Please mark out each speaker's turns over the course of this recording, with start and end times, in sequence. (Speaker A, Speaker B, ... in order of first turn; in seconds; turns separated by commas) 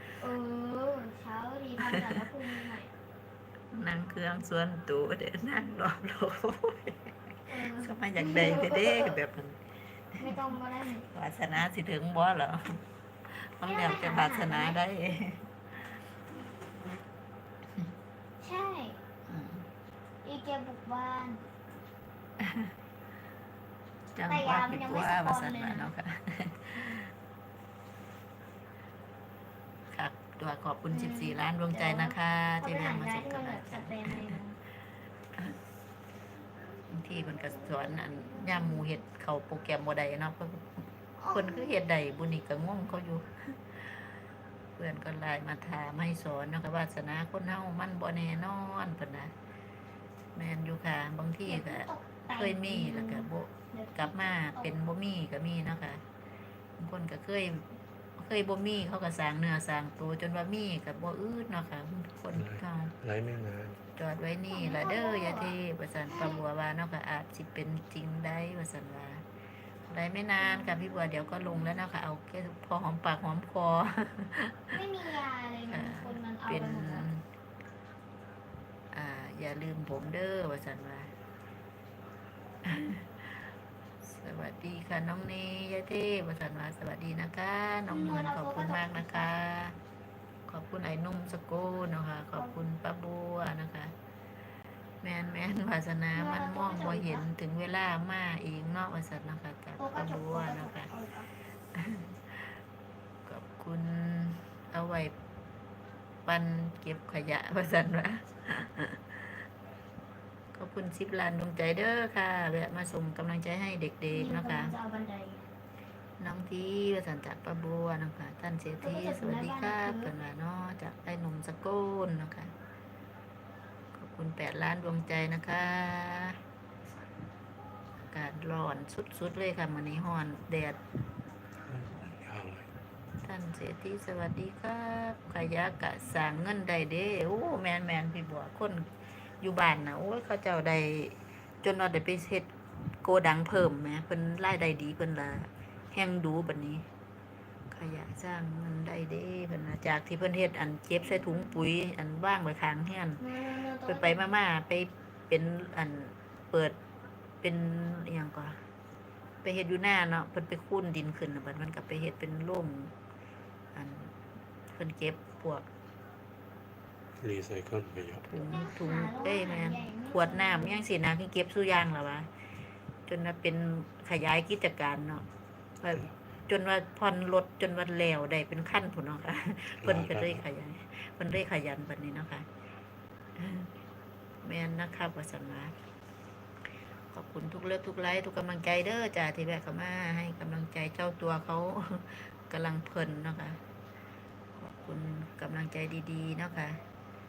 Speaker A: 0.2-2.9, Speaker B: 2.0-2.3, Speaker B: 3.7-9.6, Speaker A: 7.5-9.2, Speaker B: 10.1-10.4, Speaker A: 10.2-11.1, Speaker B: 11.1-12.8, Speaker B: 13.4-15.5, Speaker A: 13.7-14.8, Speaker A: 18.4-19.0, Speaker B: 19.3-19.7, Speaker A: 20.2-21.4, Speaker B: 22.4-22.7, Speaker B: 24.1-27.1, Speaker A: 24.3-25.9, Speaker B: 29.9-34.3, Speaker A: 30.9-34.6, Speaker B: 36.9-44.0, Speaker A: 37.1-38.9, Speaker A: 41.2-41.8, Speaker B: 44.8-49.3, Speaker B: 50.4-56.0, Speaker A: 51.5-54.7, Speaker B: 56.8-62.9, Speaker C: 62.3-63.8, Speaker B: 64.0-69.2, Speaker A: 64.5-65.6, Speaker A: 66.1-66.4, Speaker B: 69.9-74.8, Speaker A: 70.4-71.8, Speaker A: 74.7-77.1, Speaker B: 75.7-77.2, Speaker B: 78.9-81.1, Speaker B: 82.7-83.4, Speaker B: 84.0-89.8, Speaker A: 87.9-89.3, Speaker B: 90.5-93.9, Speaker B: 95.0-100.9, Speaker A: 96.1-97.3, Speaker A: 99.8-101.3, Speaker B: 101.8-102.5, Speaker B: 103.3-105.1, Speaker B: 106.3-109.3, Speaker B: 110.5-114.8, Speaker A: 114.1-115.5, Speaker B: 116.2-122.5, Speaker A: 118.8-120.1, Speaker B: 123.9-126.4, Speaker B: 128.1-130.8, Speaker C: 131.7-132.7, Speaker B: 133.2-138.8, Speaker B: 139.4-142.5, Speaker B: 143.0-146.9, Speaker B: 147.7-153.2, Speaker A: 151.0-151.6, Speaker A: 153.2-154.3, Speaker B: 153.8-156.8, Speaker B: 157.4-158.6, Speaker B: 159.4-162.9, Speaker B: 163.7-164.1, Speaker B: 164.7-165.7, Speaker C: 167.2-168.3, Speaker B: 168.2-172.3, Speaker A: 168.4-170.8, Speaker B: 173.1-175.2, Speaker B: 175.8-182.4, Speaker C: 179.8-180.4, Speaker B: 183.4-183.7, Speaker B: 184.4-185.7, Speaker B: 187.1-193.6, Speaker B: 194.6-196.8